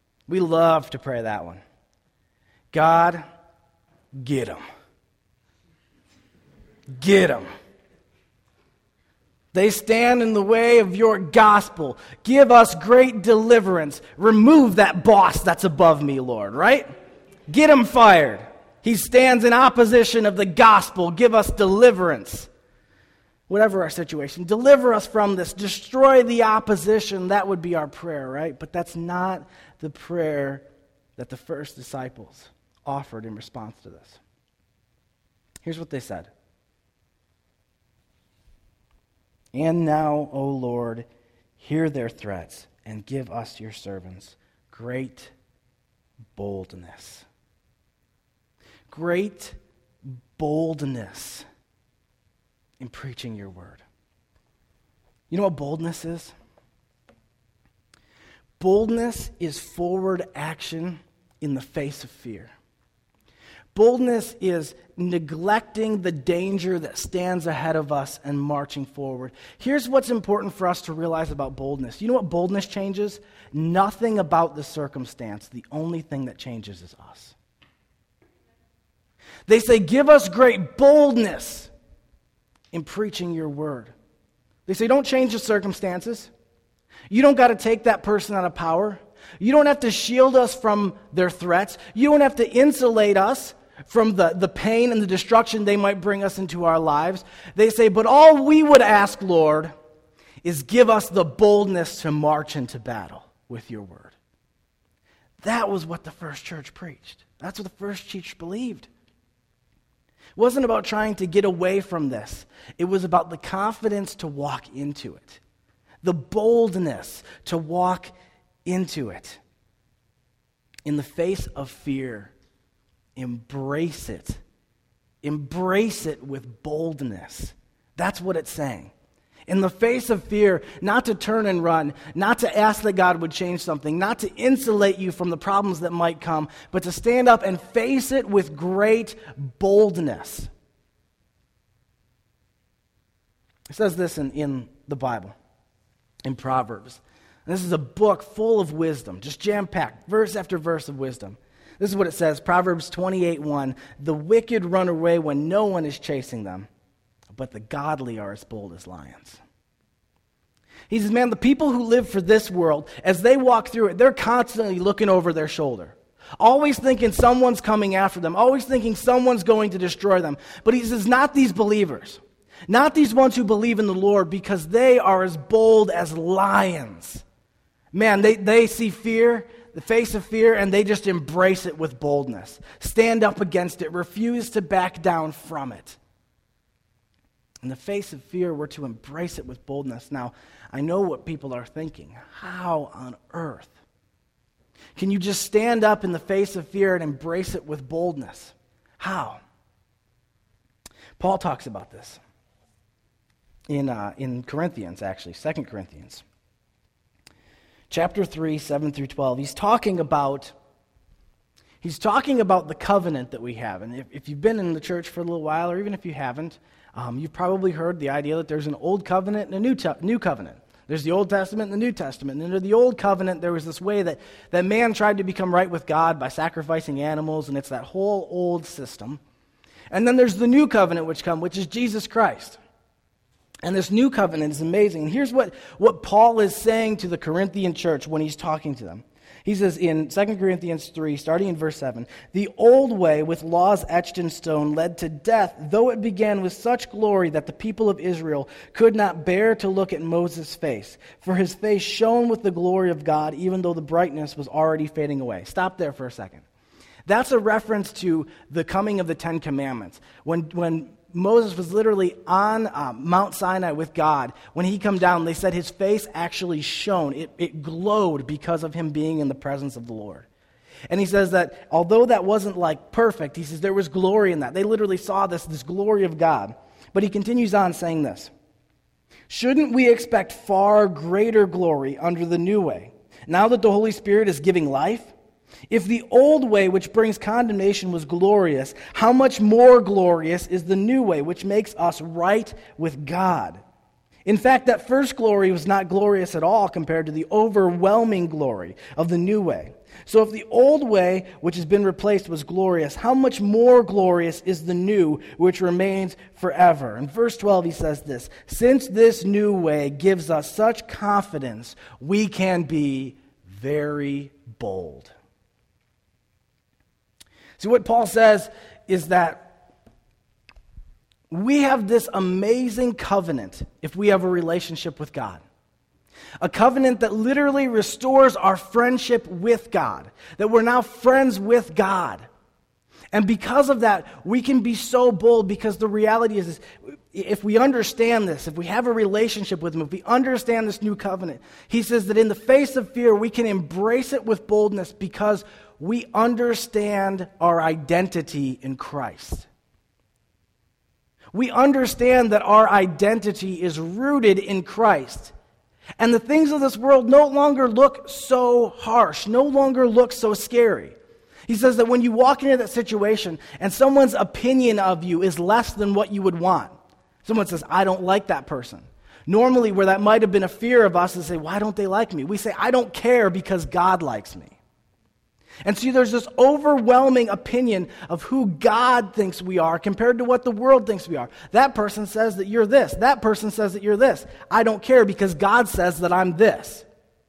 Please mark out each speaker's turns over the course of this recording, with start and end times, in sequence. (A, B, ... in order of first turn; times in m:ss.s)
0:00.3-0:01.6 A
0:02.7-0:03.2 A
0:04.1-0:04.6 A
0:06.9-0:07.5 A
0:09.5-0:16.9 A
0:17.5-0:22.5 A
0:23.5-0:30.6 A
0:31.2-0:34.2 A
0:35.6-0:36.3 A
0:39.5-0:41.1 A
0:41.6-0:45.3 A
0:46.3-0:47.3 A
0:48.9-0:49.6 A
0:50.4-0:51.4 A
0:52.8-0:53.8 A
0:55.3-0:56.3 A
0:58.6-1:02.5 A
1:03.7-1:17.4 A
1:19.5-1:21.7 A
1:22.7-1:23.9 A
1:24.7-1:26.3 A
1:27.1-1:39.7 A
1:40.4-1:44.2 A
1:45.4-1:48.9 A
1:50.4-1:55.4 A
1:56.0-1:58.1 A
1:58.6-1:59.4 A
2:00.8-2:02.3 A
2:03.2-2:04.4 A
2:05.2-2:08.9 A
2:09.5-2:20.5 A
2:23.7-2:25.3 A
2:26.2-2:36.7 A
2:37.3-2:39.4 A
2:40.9-2:57.2 A
2:57.9-3:06.0 A
3:07.6-3:13.8 A
3:15.0-3:19.4 A
3:21.2-3:22.2 A
3:23.7-3:26.2 A
3:27.9-3:30.5 A
3:31.8-3:49.2 A
3:49.9-3:52.6 A
3:53.6-4:16.4 A
4:17.0-4:30.3 A
4:30.9-4:38.3 A
4:39.3-4:45.1 A
4:45.7-4:53.6 A
4:54.2-5:15.1 A
5:17.6-5:19.5 A
5:21.3-5:25.4 A
5:26.4-5:32.3 A
5:33.1-5:49.5 A
5:51.3-5:55.3 A
5:56.0-6:01.0 A
6:01.5-6:06.7 A
6:07.2-6:14.6 A
6:15.6-6:26.9 A